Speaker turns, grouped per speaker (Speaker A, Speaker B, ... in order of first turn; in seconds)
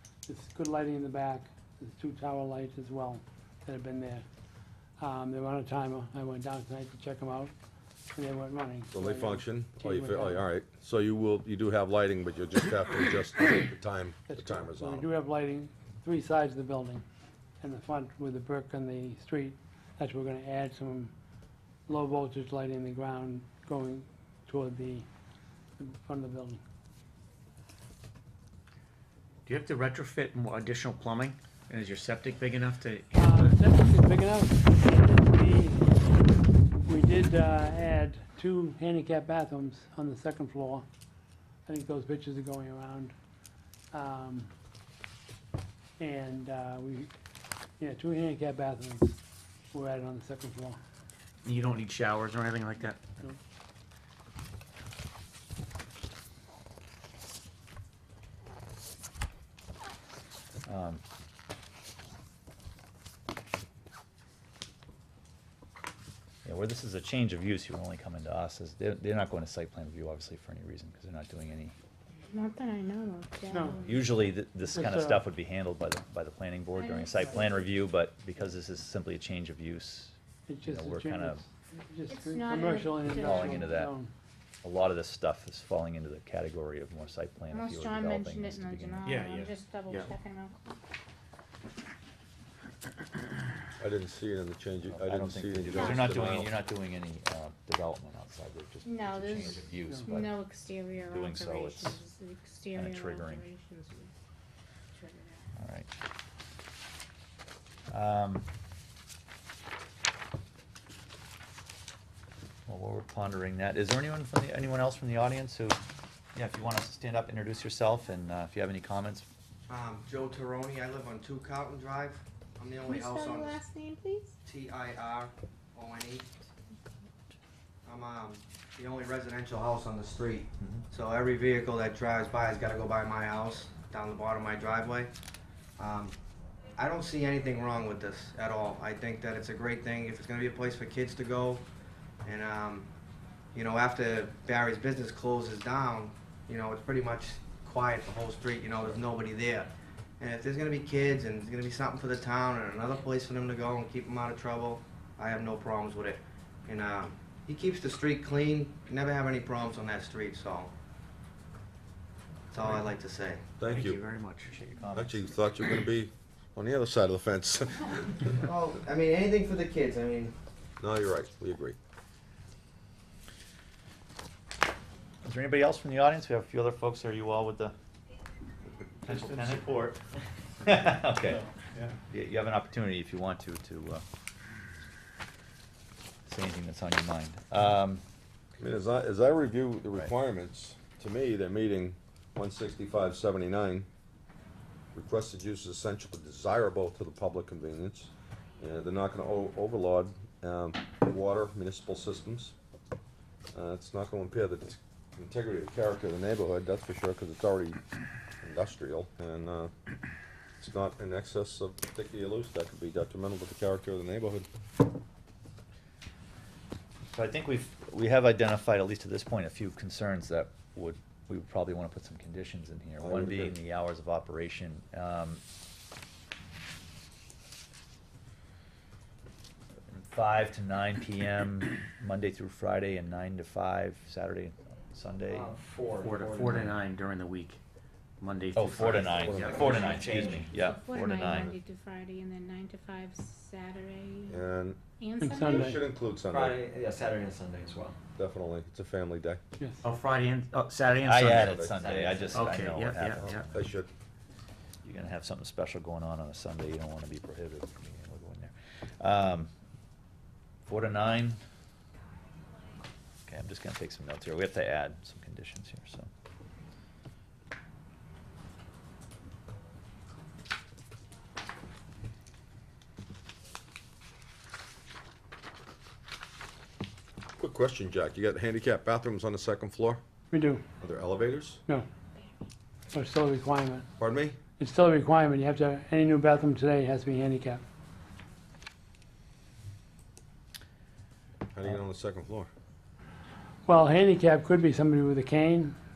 Speaker A: 0.2-4.2, 5.0-7.5, 8.1-10.4, 14.3-17.0, 17.6-21.1, 21.9-25.1, 25.8-26.6, 33.1-35.8, 36.8-40.9, 41.7-43.1, 43.9-44.5, 46.0-47.1, 47.8-49.2, 49.7-50.8, 73.5-73.8, 74.7-75.2, 80.5-84.1, 245.2-245.8, 280.3-280.6, 282.9-283.9, 284.6-287.6, 293.7-295.8
Speaker B: 8.9-15.1, 93.8-96.5, 163.6-164.0, 164.9-168.4, 170.8-171.8, 188.6-193.9, 194.9-202.5, 203.5-207.8, 208.4-209.7, 210.6-214.5, 223.0-223.6, 239.1-239.7, 240.9-241.6, 244.3-244.8, 245.4-246.7, 248.2-249.4, 251.3-252.2, 253.2-253.9, 277.4-280.0, 280.8-281.6, 284.0-284.4, 291.5-292.5
Speaker C: 29.4-33.6, 51.4-53.2, 89.0-90.1, 162.6-162.9, 163.6-164.5, 179.1-179.7, 181.3-181.9, 235.9-237.6, 238.2-240.5, 249.8-251.6, 252.2-253.4
Speaker D: 60.7-61.0, 66.4-71.8, 73.8-81.4, 83.1-83.9, 84.6-89.2, 94.9-100.5, 101.0-102.0, 102.7-103.5, 105.6-105.9, 107.9-108.5, 112.7-115.8, 116.3-119.2, 130.6-130.9, 164.4-165.3, 175.2-177.7, 179.0-180.0, 180.6-181.4, 182.1-184.0, 186.2-188.0, 217.1-225.4, 229.9-235.6, 238.6-241.6, 251.0-253.6, 254.8-259.5, 260.7-261.4, 263.2-266.1
Speaker E: 72.3-74.2, 76.7-77.7, 82.1-83.9, 87.5-90.8, 95.7-96.1, 98.8-104.1, 104.9-105.5, 122.8-124.4, 239.6-244.4, 245.0-245.8
Speaker F: 119.7-123.6, 124.4-126.3, 127.8-135.1, 135.8-136.2, 136.8-141.7, 142.2-142.9, 143.5-160.7, 162.5-163.5, 168.4-170.3
Speaker G: 235.3-236.8, 239.2-240.1, 246.3-247.9, 251.8-252.2